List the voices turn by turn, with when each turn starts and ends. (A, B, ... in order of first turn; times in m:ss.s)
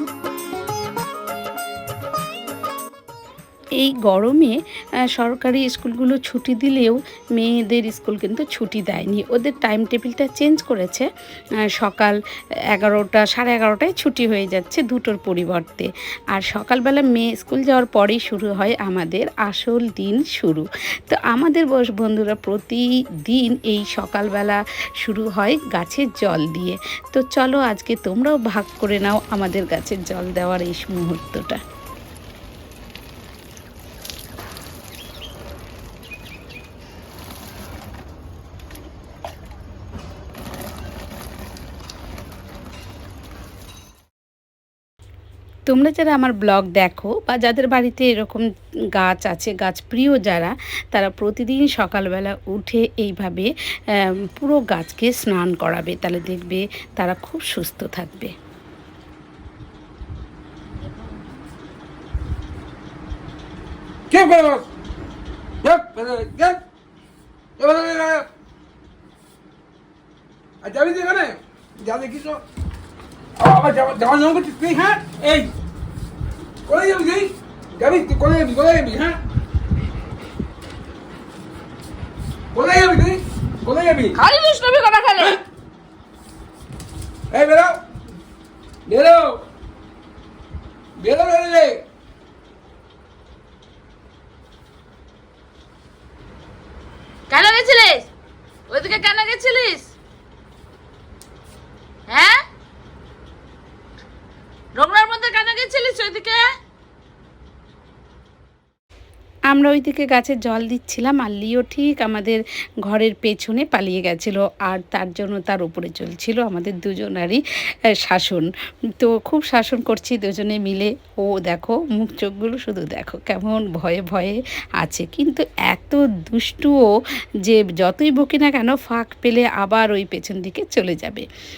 0:03.8-0:11.1 A
0:11.7-0:12.2 A
0:12.7-0:31.6 A
0:45.7-0:58.4 A
1:04.1-1:04.7 B
1:05.6-1:06.6 B
1:07.6-1:08.3 B
1:10.6-1:12.4 B
1:13.4-1:15.5 B
1:16.7-1:19.2 B
1:22.5-1:24.2 B
1:24.2-1:25.4 C
1:27.3-1:27.8 B
1:28.9-1:29.4 B
1:31.0-1:31.8 B
1:37.3-1:38.1 C
1:38.7-1:39.9 C
1:42.1-1:42.4 C
1:44.8-1:46.5 C
1:49.5-1:57.4 A
1:58.0-2:11.3 A